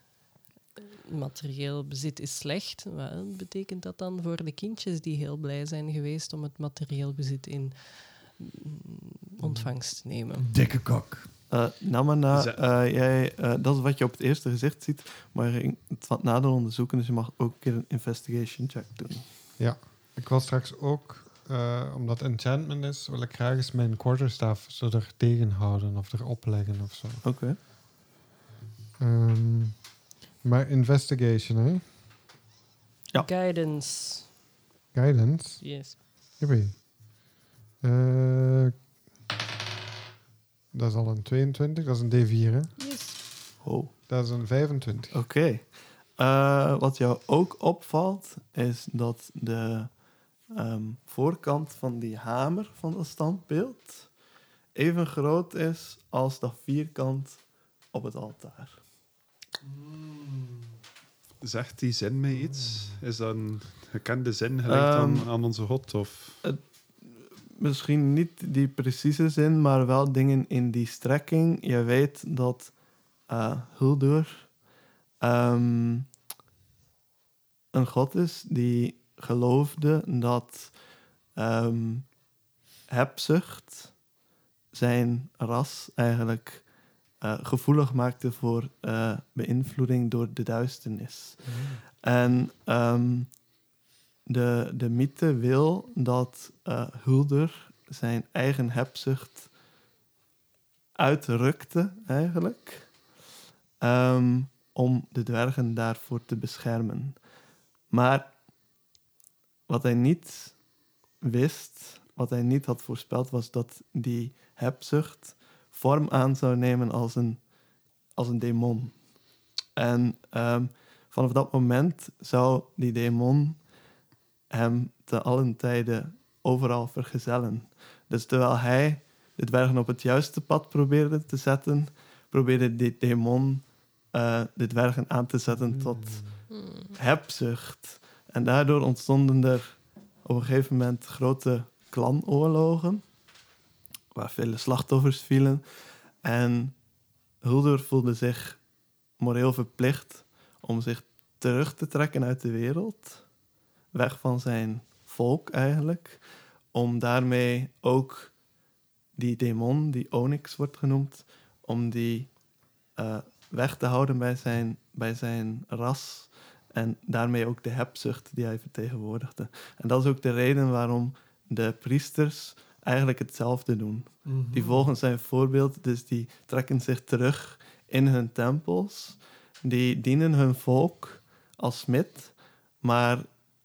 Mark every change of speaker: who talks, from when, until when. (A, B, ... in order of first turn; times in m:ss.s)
0:01.0-0:10.5 A
0:10.4-0:11.3 B
0:11.5-0:19.2 C
0:12.3-0:12.6 D
0:19.6-0:27.2 E
0:27.2-0:27.6 C
0:29.0-0:29.9 E
0:30.4-0:31.8 E
0:33.2-0:34.3 A
0:34.9-0:36.8 E
0:35.6-0:36.0 A
0:37.8-0:38.7 E
0:40.7-0:42.7 E
0:42.8-0:43.2 A
0:43.6-0:43.9 C
0:44.1-0:45.2 E
0:45.1-0:49.9 C
0:50.5-0:54.1 C
0:54.8-0:57.4 C
0:57.9-0:58.8 C
0:59.6-1:00.8 B
1:01.4-1:06.4 D
1:04.7-1:05.3 C
1:07.5-1:12.7 C
1:13.3-1:14.5 C
1:15.2-1:16.1 C
1:17.7-1:20.7 C
1:21.4-1:22.1 C
1:22.9-1:23.9 C
1:24.7-1:26.6 C
1:27.2-1:31.4 C
1:31.5-1:31.8 E
1:32.0-1:33.3 C
1:34.3-1:39.5 C
1:41.0-1:42.9 C
1:43.8-1:47.2 C
1:47.9-1:48.3 C
1:49.7-1:50.6 C
1:51.2-1:57.4 C
1:58.2-1:59.0 C
1:59.8-2:03.6 C
2:04.5-2:16.3 C
2:15.6-2:16.4 E
2:16.5-2:17.0 A
2:16.9-2:23.0 C
2:24.1-2:25.6 C
2:26.2-2:26.8 C
2:27.4-2:28.6 C
2:29.2-2:33.2 C
2:33.9-2:36.2 C
2:36.7-2:38.3 C
2:39.2-2:42.3 C
2:43.0-3:03.3 C
2:54.2-2:54.9 B